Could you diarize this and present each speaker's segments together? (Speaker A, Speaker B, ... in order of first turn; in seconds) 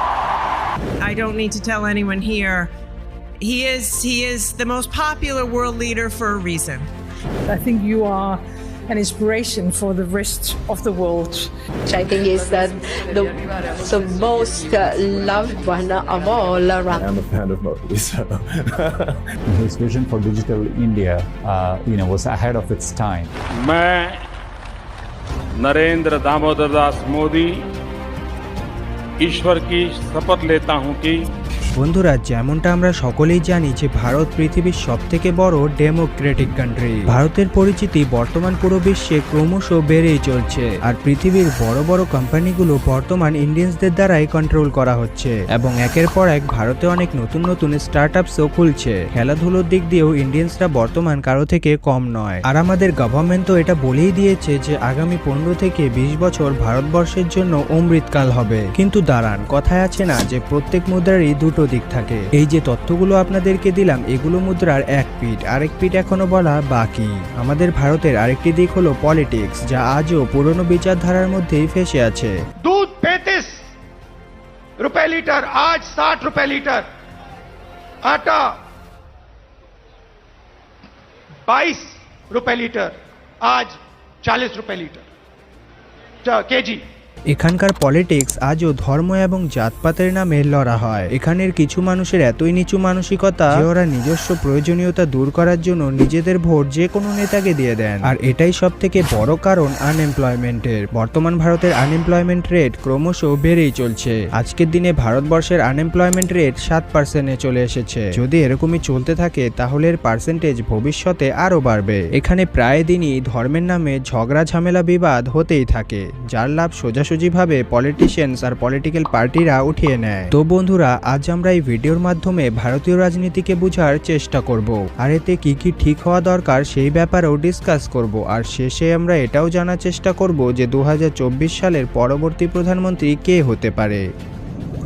Speaker A: 1.0-2.7, 3.4-6.9
Speaker B: 7.5-11.5
Speaker C: 11.9-17.1
Speaker D: 16.9-19.2
Speaker E: 19.5-23.3
Speaker F: 23.6-24.2, 25.6-27.6, 29.2-31.2
Speaker G: 31.8-72.3, 87.3-134.0
Speaker H: 72.6-73.6, 74.8-76.8, 78.0-78.5, 81.5-85.0, 86.2-86.8